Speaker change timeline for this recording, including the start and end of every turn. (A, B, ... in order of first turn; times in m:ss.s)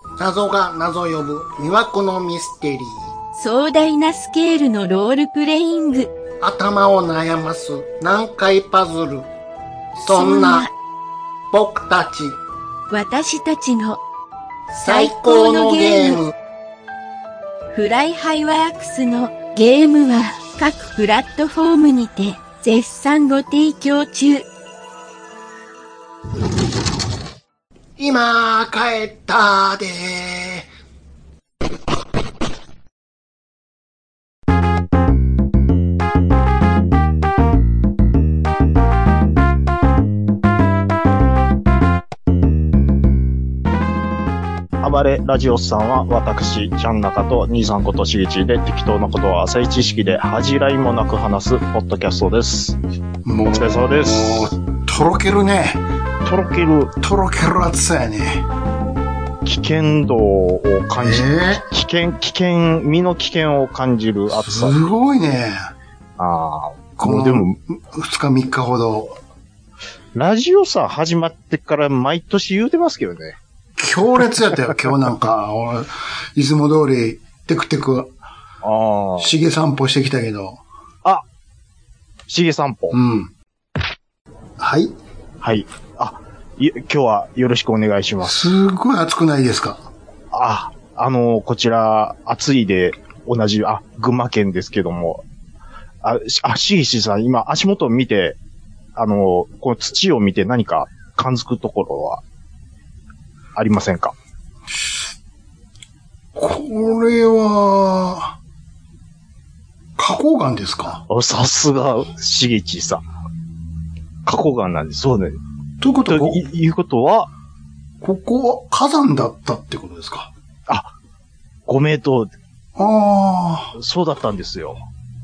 0:00.2-0:03.0 A
0:03.3-0:06.1 B
0:06.4-0:09.3 A
0:10.0-0:10.7 A
0:10.0-0:10.7 B
0:11.5-0:12.4 A
0:12.9-0:14.0 B
0:14.7-0:16.2 B
0:14.8-0:16.3 A
0:17.7-0:24.5 B
0:28.0-0:30.7 A
0:44.8-0:52.8 C
0:53.2-0:55.8 A
0:53.5-0:54.5 C
0:56.2-0:56.9 C
0:57.0-0:58.5 A
0:59.4-1:04.8 C
1:01.0-1:01.6 A
1:04.3-1:05.7 A
1:06.2-1:07.6 C
1:07.0-1:09.2 A
1:10.1-1:13.4 C
1:13.8-1:18.1 A
1:18.6-1:19.4 C
1:19.2-1:20.6 A
1:22.3-1:23.0 C
1:22.9-1:23.3 A
1:24.6-1:24.9 A
1:25.4-1:28.5 C
1:28.2-1:29.9 A
1:30.3-1:35.2 C
1:36.0-1:38.4 C
1:39.0-1:42.2 C
1:43.6-1:44.1 C
1:44.7-1:45.0 A
1:46.3-1:48.4 A
1:50.0-1:51.0 A
1:51.1-1:53.0 C
1:54.2-1:55.4 C
1:55.8-1:56.4 A
1:56.0-1:57.3 C
1:58.0-2:00.3 A
2:01.7-2:02.3 C
2:02.8-2:03.7 A
2:03.7-2:04.8 C